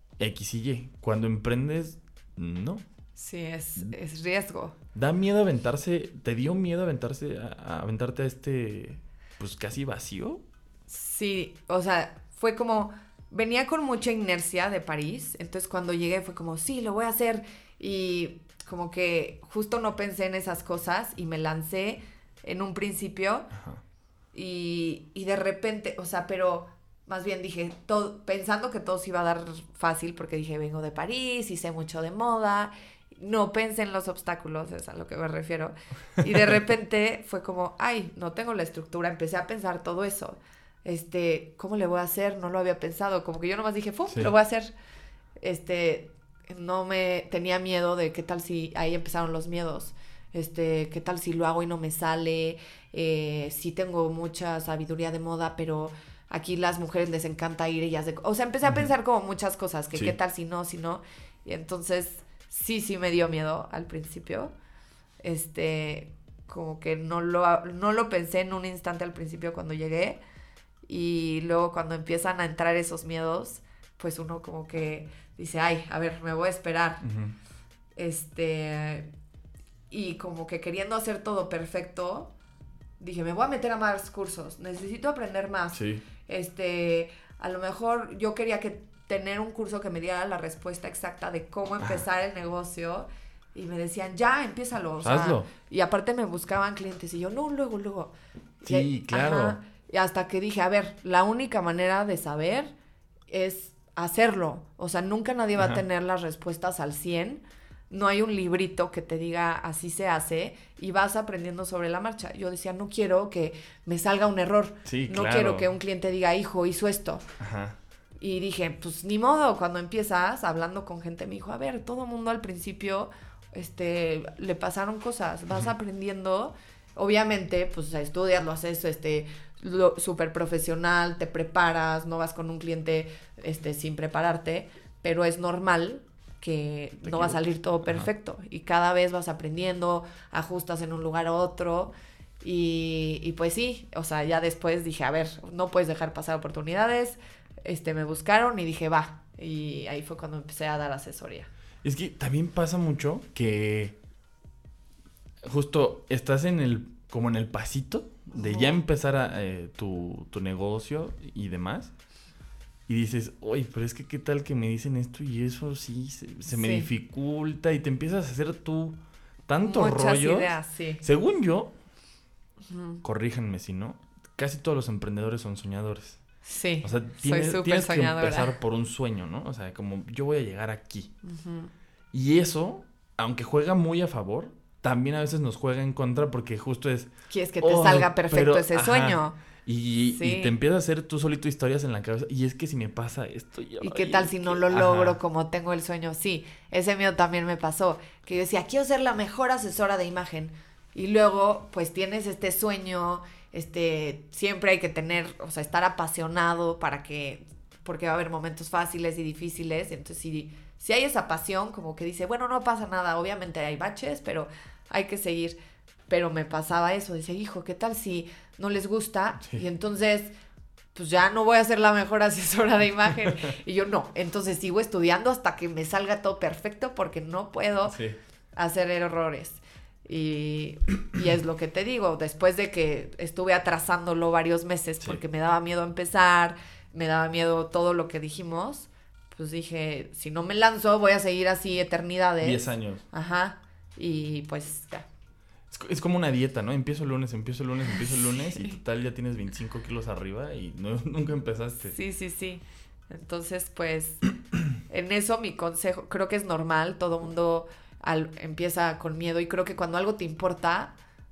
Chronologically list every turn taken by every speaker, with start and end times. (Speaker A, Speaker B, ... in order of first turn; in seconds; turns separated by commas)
Speaker A: 0.2-2.8, Speaker B: 3.2-4.8, Speaker A: 5.0-10.4, Speaker B: 10.9-23.5, Speaker A: 23.5-23.8, Speaker B: 24.3-44.7, Speaker B: 45.4-64.5, Speaker B: 65.2-70.2, Speaker B: 70.9-77.0, Speaker A: 77.0-77.4, Speaker B: 78.0-79.1, Speaker B: 79.9-82.3, Speaker B: 83.0-102.7, Speaker A: 85.7-86.0, Speaker A: 95.0-95.5, Speaker A: 98.7-99.6, Speaker B: 103.3-117.3, Speaker A: 114.8-115.7, Speaker A: 117.4-117.8, Speaker B: 118.2-151.5, Speaker A: 137.1-138.1, Speaker A: 151.8-154.0, Speaker A: 155.4-161.9, Speaker B: 158.4-158.7, Speaker A: 162.9-170.5, Speaker B: 166.5-166.9, Speaker B: 169.6-171.0, Speaker A: 171.0-171.7, Speaker B: 172.7-173.0, Speaker A: 173.0-176.2, Speaker B: 176.4-178.6, Speaker A: 176.8-181.1, Speaker B: 181.2-181.7, Speaker A: 182.1-187.1, Speaker B: 187.3-189.4, Speaker A: 187.6-195.2, Speaker B: 190.1-190.5, Speaker B: 193.8-215.6, Speaker B: 216.1-220.3, Speaker B: 220.9-228.0, Speaker A: 227.9-228.2, Speaker B: 228.6-245.1, Speaker A: 242.4-243.0, Speaker A: 245.7-252.0, Speaker B: 247.9-248.8, Speaker B: 251.9-254.2, Speaker B: 254.8-260.9